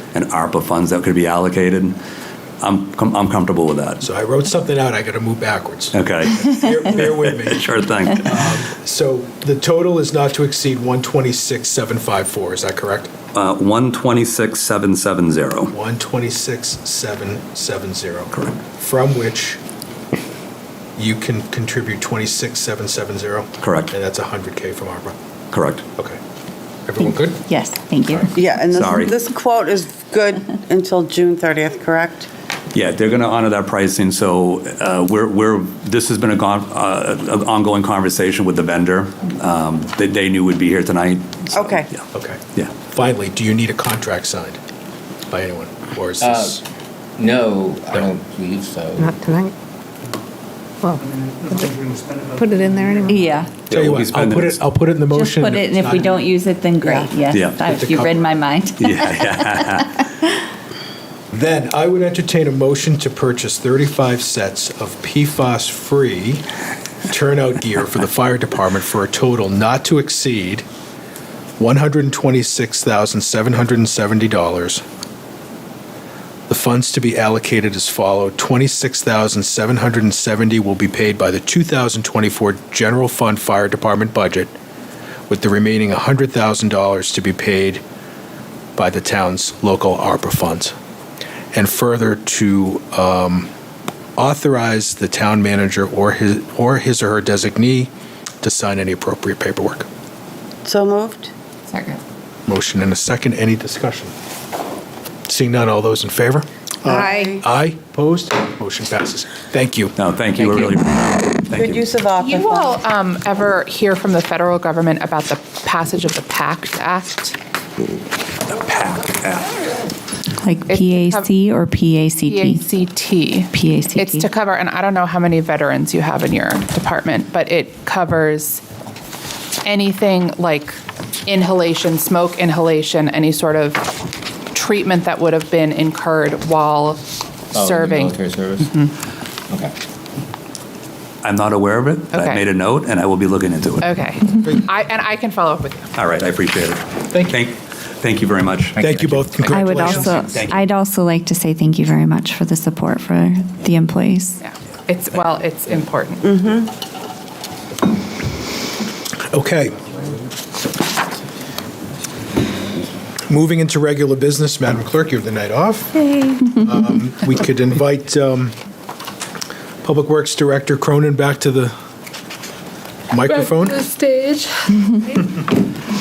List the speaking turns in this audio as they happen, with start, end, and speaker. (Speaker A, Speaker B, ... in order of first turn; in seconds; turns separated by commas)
Speaker A: 0.1-2.0, Speaker A: 2.6-4.0, Speaker B: 4.0-13.1, Speaker A: 5.9-8.6, Speaker A: 13.3-15.7, Speaker B: 15.7-19.6, Speaker B: 21.0-25.1, Speaker A: 23.6-23.9, Speaker A: 25.5-25.9, Speaker B: 26.9-27.4, Speaker C: 27.1-28.3, Speaker D: 28.3-32.3, Speaker A: 28.7-29.1, Speaker A: 32.7-42.0, Speaker D: 41.5-41.9, Speaker B: 42.1-44.6, Speaker B: 45.3-46.6, Speaker E: 46.2-46.6, Speaker E: 47.2-49.1, Speaker F: 49.0-49.5, Speaker F: 50.8-53.4, Speaker C: 53.1-53.5, Speaker A: 53.7-54.6, Speaker B: 53.7-56.2, Speaker C: 55.1-60.1, Speaker D: 56.8-57.1, Speaker A: 57.3-57.6, Speaker B: 57.6-58.3, Speaker A: 58.8-59.9, Speaker B: 61.3-66.4, Speaker B: 67.1-70.7, Speaker B: 71.6-74.8, Speaker B: 76.5-84.5, Speaker B: 85.3-87.8, Speaker B: 88.8-90.8, Speaker B: 91.5-93.5, Speaker B: 94.2-97.9, Speaker B: 98.4-99.9, Speaker D: 100.6-101.3, Speaker G: 101.7-102.0, Speaker B: 102.5-104.1, Speaker B: 105.3-106.5, Speaker F: 106.8-107.4, Speaker D: 106.9-107.2, Speaker B: 107.2-109.9, Speaker A: 110.0-111.9, Speaker D: 111.5-112.8, Speaker G: 112.2-117.4, Speaker A: 118.5-119.5, Speaker C: 120.4-122.8, Speaker G: 120.7-121.4, Speaker G: 122.2-128.6, Speaker C: 123.5-124.3, Speaker G: 129.6-138.9, Speaker E: 137.5-138.7, Speaker E: 139.5-139.7, Speaker A: 141.2-143.9, Speaker G: 142.1-142.4, Speaker G: 143.8-145.9, Speaker A: 145.9-149.3, Speaker B: 147.1-147.4, Speaker B: 148.8-150.3, Speaker G: 149.4-149.9, Speaker C: 149.5-154.4, Speaker A: 150.1-150.6, Speaker G: 154.4-156.6, Speaker D: 156.2-156.7, Speaker B: 159.3-159.9, Speaker B: 163.3-168.5, Speaker F: 166.0-166.4, Speaker B: 169.8-171.8, Speaker B: 173.1-173.8, Speaker F: 173.4-174.5